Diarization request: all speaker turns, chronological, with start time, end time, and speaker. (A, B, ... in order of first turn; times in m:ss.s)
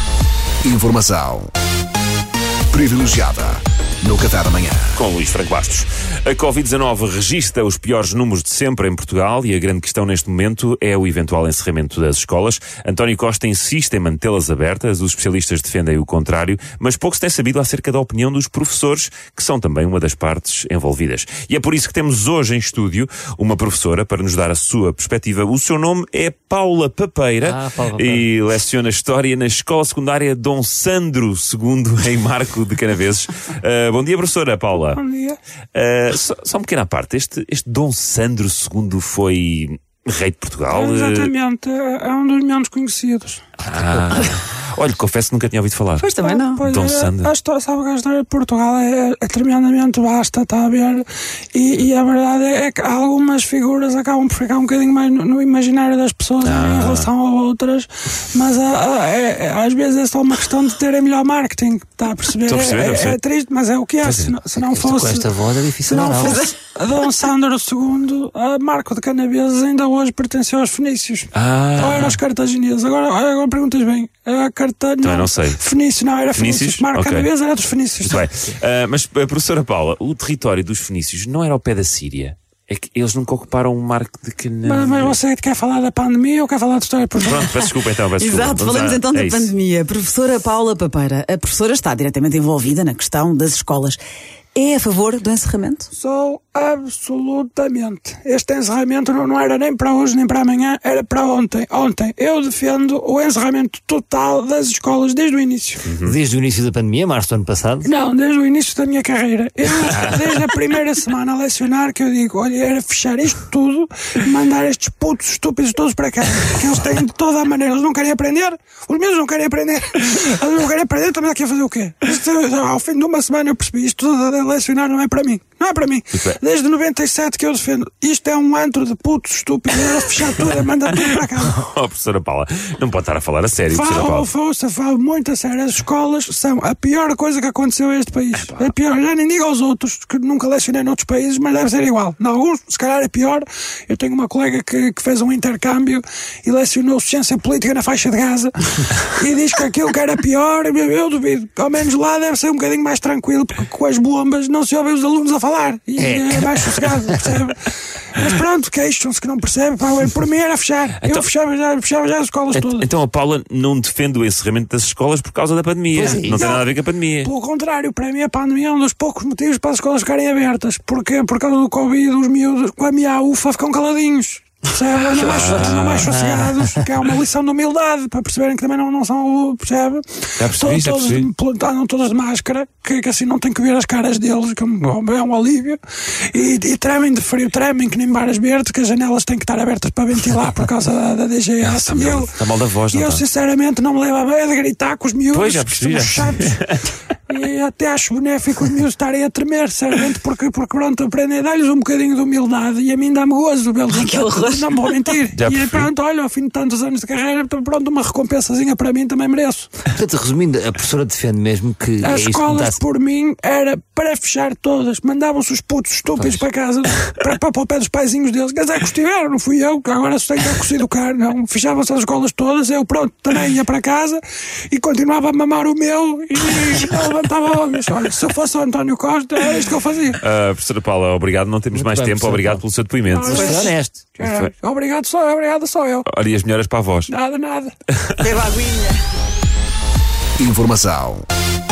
0:00.6-0:01.5 A
0:02.7-0:05.0 A
0:05.0-0:35.0 B
0:27.4-0:28.3 C
0:34.8-0:35.4 D
0:35.8-0:41.3 B
0:40.7-0:43.4 D
0:43.6-0:46.1 B
0:46.0-0:46.6 E
0:46.2-1:05.3 D
0:46.6-0:47.3 B
0:56.4-0:57.1 B
1:02.4-1:03.2 B
1:04.0-1:04.4 B
1:04.6-1:06.4 C
1:05.8-1:18.3 D
1:06.2-1:06.5 E
1:11.3-1:12.2 B
1:15.0-1:15.6 B
1:16.4-1:17.3 B
1:18.0-1:25.2 B
1:24.6-1:27.6 D
1:27.2-1:29.5 B
1:28.2-1:34.0 E
1:34.6-1:35.9 E
1:35.9-1:45.9 D
1:45.8-1:46.2 B
1:46.0-1:47.9 C
1:47.8-2:11.7 D
2:06.1-2:06.4 B
2:11.6-2:14.3 B
2:13.7-2:42.9 D
2:18.4-2:18.7 B
2:36.0-2:37.3 C
2:41.0-2:41.3 B
2:42.5-2:47.3 B
2:45.9-2:46.6 C
2:46.0-3:16.6 D
2:55.2-2:56.1 B
2:56.0-2:56.8 C
3:00.4-3:01.3 B
3:11.6-3:13.2 B
3:15.3-3:16.8 B
3:17.3-3:29.7 D
3:23.9-3:25.0 E
3:25.4-3:25.9 B
3:29.9-3:32.8 C
3:32.0-3:50.2 D
3:36.2-3:36.4 C
3:50.2-3:54.5 B
3:51.7-3:52.6 C
3:53.1-3:56.1 D
3:53.3-3:54.1 C
3:56.1-3:57.1 B
3:57.1-3:57.7 D
3:58.2-3:59.0 E
4:00.4-4:01.3 A